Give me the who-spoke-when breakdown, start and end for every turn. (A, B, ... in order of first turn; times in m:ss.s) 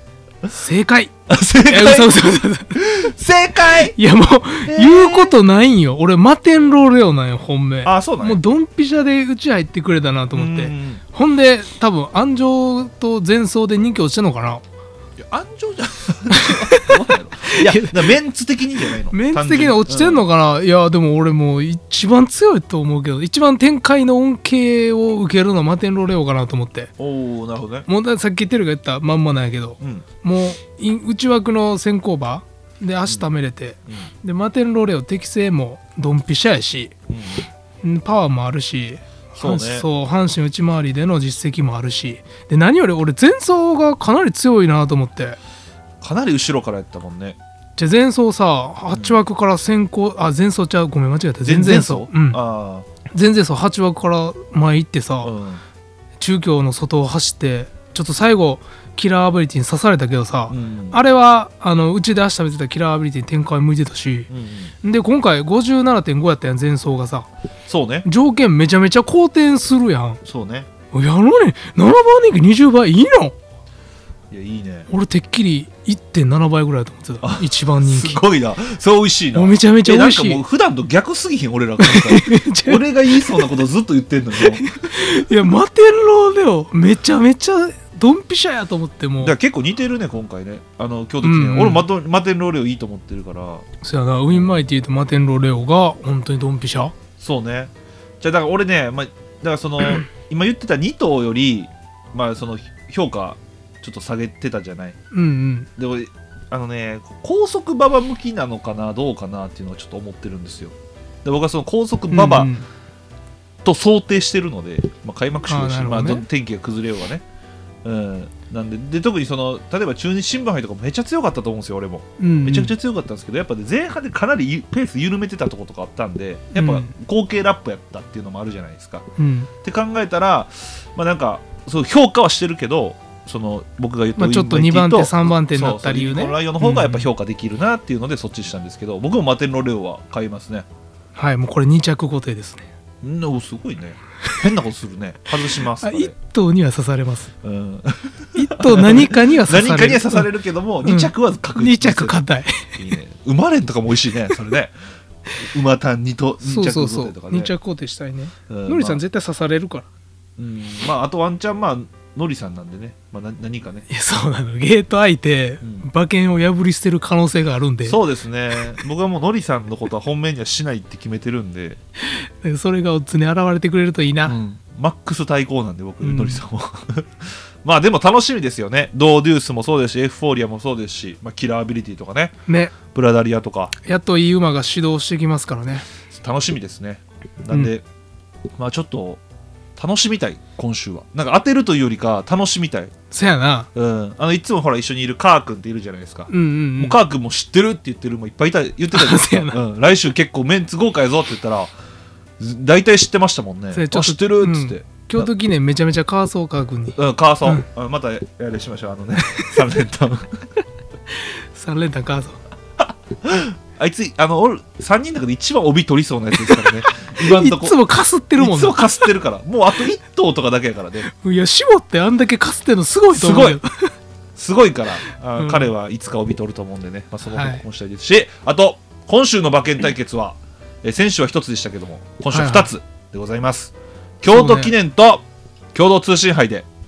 0:00.5-0:01.1 A
0:01.3-0:02.2 B
0:01.6-0:02.8 A
0:02.8-0:04.0 B
0:04.0-0:14.6 A
0:04.6-0:05.3 B
0:07.8-0:08.4 B
0:10.3-0:11.0 B
0:15.2-0:20.3 B
0:16.3-0:17.0 A
0:17.5-0:18.1 A
0:19.1-0:26.9 A
0:27.0-0:27.9 B
0:27.9-0:37.0 A
0:37.1-0:37.5 B
0:37.8-0:45.4 A
0:39.4-0:39.9 B
0:46.0-0:47.4 B
0:47.8-0:52.4 A
0:48.9-0:49.2 B
0:51.4-0:52.9 B
0:53.1-0:55.3 A
0:55.2-0:55.6 B
0:56.2-1:04.3 A
1:00.5-1:01.0 B
1:04.3-1:04.7 B
1:04.8-1:07.3 A
1:07.7-1:08.1 B
1:08.0-1:10.2 A
1:10.2-1:10.7 B
1:10.9-1:13.4 A
1:14.3-1:14.9 B
1:14.9-1:18.2 A
1:17.2-1:24.7 B
1:19.4-1:20.4 A
1:21.8-1:23.5 A
1:24.4-1:29.4 A
1:29.2-1:33.6 B
1:31.2-1:31.9 A
1:33.8-1:37.0 A
1:34.3-1:34.6 B
1:37.2-1:45.0 B
1:45.1-1:45.7 A
1:45.8-1:52.5 B
1:52.1-1:52.6 A
1:53.6-1:57.2 B
1:55.5-1:56.2 A
1:57.8-2:09.1 B
2:02.2-2:02.7 A
2:06.5-2:06.9 A
2:09.2-2:09.5 A
2:09.6-2:20.6 B
2:14.2-2:17.1 A
2:21.2-2:22.7 A
2:23.0-2:26.1 B
2:25.8-2:27.3 A
2:27.4-2:32.2 B
2:28.4-2:30.3 A
2:30.8-2:32.9 A
2:32.8-2:34.8 B
2:35.4-2:37.5 B
2:36.4-2:39.9 A
2:38.5-2:39.0 B
2:40.4-2:43.8 B
2:43.9-2:48.0 A
2:45.6-2:45.9 B
2:47.8-2:51.8 B
2:52.0-2:54.4 A
2:54.3-3:02.4 B
2:56.0-2:56.4 A
3:02.5-3:02.7 A
3:02.9-3:03.7 B
3:03.8-3:05.9 A
3:06.1-3:07.8 B
3:08.6-3:09.2 B
3:09.8-3:12.9 B
3:13.1-3:13.7 A
3:13.8-3:21.7 B
3:16.3-3:17.0 A
3:18.9-3:19.6 A
3:22.4-3:25.3 B
3:23.7-3:27.6 A
3:27.0-3:30.4 B
3:31.1-3:32.4 A
3:33.2-3:37.8 B
3:37.2-3:39.1 A
3:38.4-3:41.1 B
3:41.1-3:43.9 A
3:43.1-3:43.6 B
3:44.4-3:56.7 B
3:45.4-3:45.7 A
3:47.3-3:47.6 A
3:52.3-3:52.7 A
3:54.3-3:54.8 A